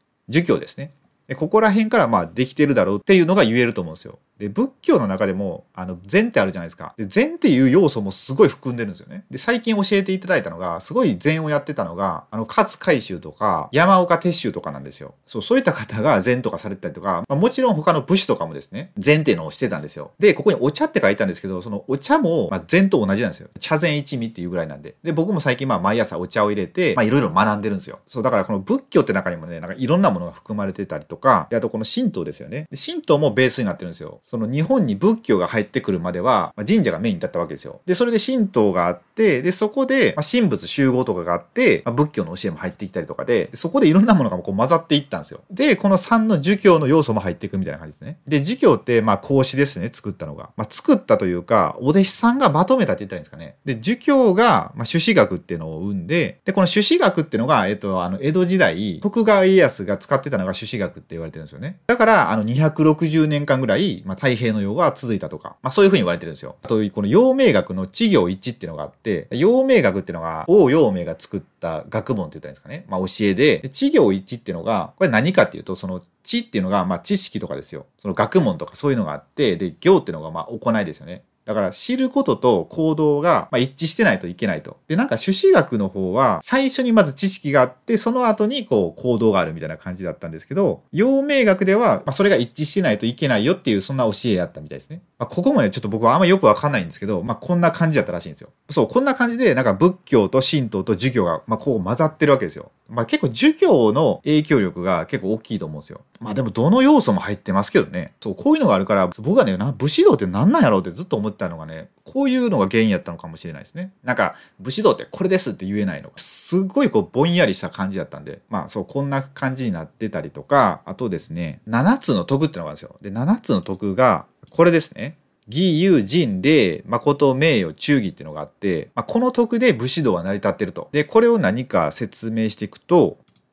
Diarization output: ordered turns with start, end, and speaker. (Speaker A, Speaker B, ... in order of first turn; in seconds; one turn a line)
Speaker A: 0.3-133.2